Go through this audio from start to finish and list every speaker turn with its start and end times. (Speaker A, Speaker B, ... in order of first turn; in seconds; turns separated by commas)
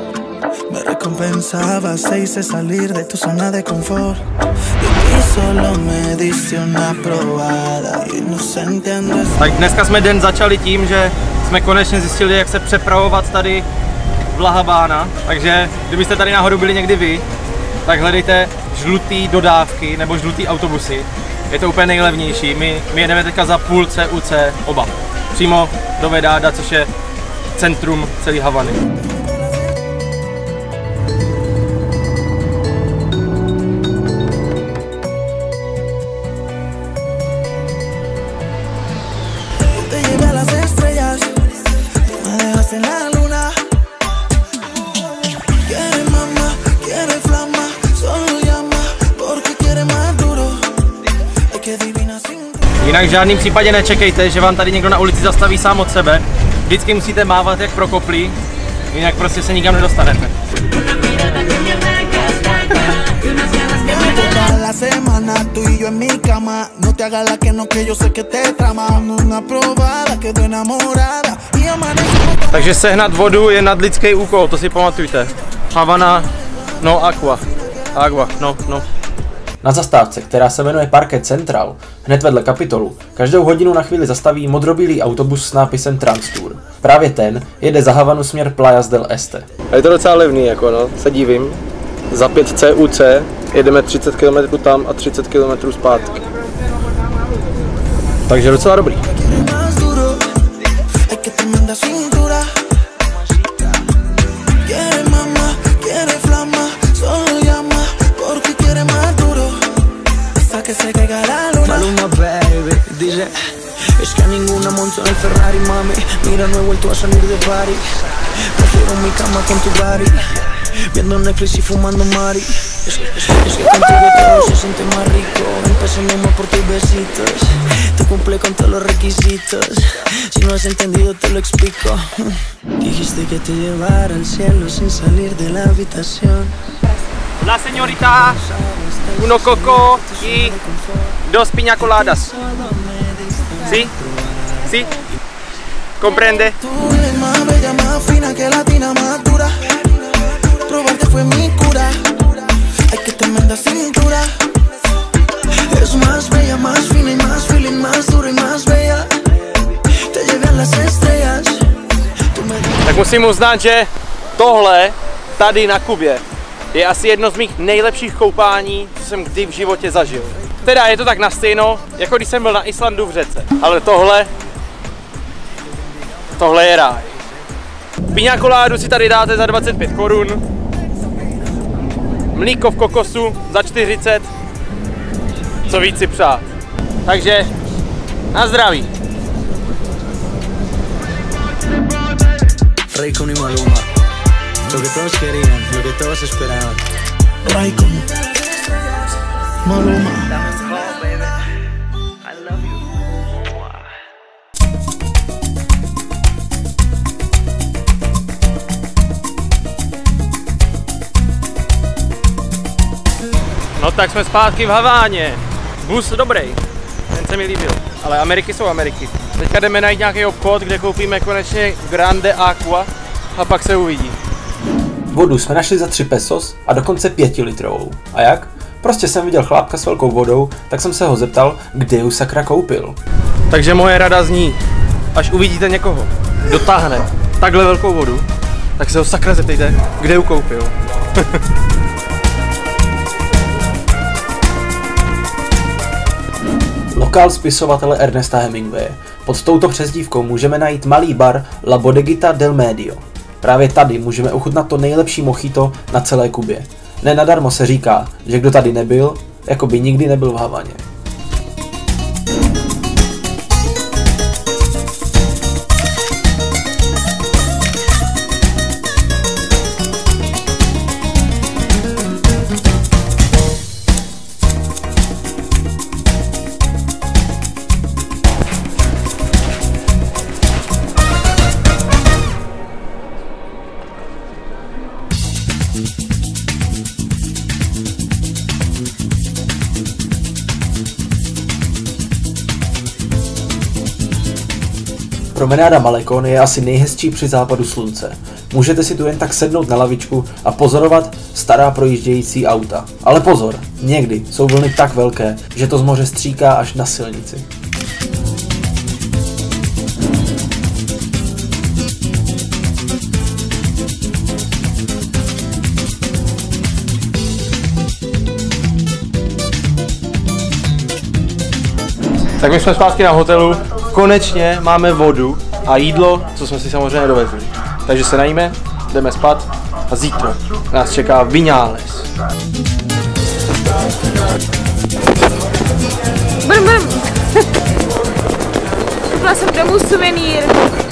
Speaker A: 0.7-4.2, Speaker A: 4.8-9.4, Speaker B: 9.4-13.7, Speaker B: 14.3-17.2, Speaker B: 17.8-26.9, Speaker B: 27.5-28.8, Speaker A: 39.7-41.4, Speaker A: 42.0-43.6, Speaker A: 45.6-50.8, Speaker A: 51.4-52.6, Speaker B: 52.7-58.4, Speaker B: 58.9-60.3, Speaker B: 62.4-63.0, Speaker A: 63.8-72.6, Speaker B: 72.5-76.3, Speaker B: 76.8-77.4, Speaker B: 77.9-78.8, Speaker C: 79.6-89.5, Speaker B: 89.7-91.6, Speaker B: 92.1-96.2, Speaker B: 98.3-99.0, Speaker A: 99.4-100.2, Speaker A: 101.0-102.6, Speaker A: 104.6-109.7, Speaker A: 110.3-112.0, Speaker D: 111.7-113.3, Speaker D: 114.0-117.8, Speaker D: 118.5-120.4, Speaker D: 120.9-136.6, Speaker B: 137.4-138.4, Speaker D: 138.3-141.1, Speaker B: 139.1-140.6, Speaker B: 141.2-142.3, Speaker D: 141.9-144.6, Speaker B: 143.6-143.9, Speaker B: 144.6-144.9, Speaker B: 146.0-146.6, Speaker A: 146.7-149.8, Speaker A: 150.4-152.2, Speaker A: 152.7-154.5, Speaker D: 155.6-159.1, Speaker D: 160.0-161.7, Speaker D: 162.3-162.8, Speaker B: 162.8-174.3, Speaker B: 176.3-177.2, Speaker B: 178.1-180.4, Speaker B: 182.3-184.3, Speaker B: 185.7-186.4, Speaker B: 187.0-187.5, Speaker B: 188.3-188.9, Speaker D: 192.9-193.9, Speaker D: 194.7-196.8, Speaker A: 197.4-198.1, Speaker A: 199.6-200.4, Speaker D: 200.4-201.3, Speaker D: 202.3-202.8, Speaker B: 213.8-216.6, Speaker B: 217.1-224.2, Speaker C: 225.1-233.0, Speaker B: 233.5-234.6, Speaker B: 235.1-238.3, Speaker B: 238.8-241.4, Speaker C: 246.9-260.8, Speaker C: 295.3-307.4, Speaker B: 322.4-332.1, Speaker E: 336.4-337.5, Speaker E: 339.1-340.6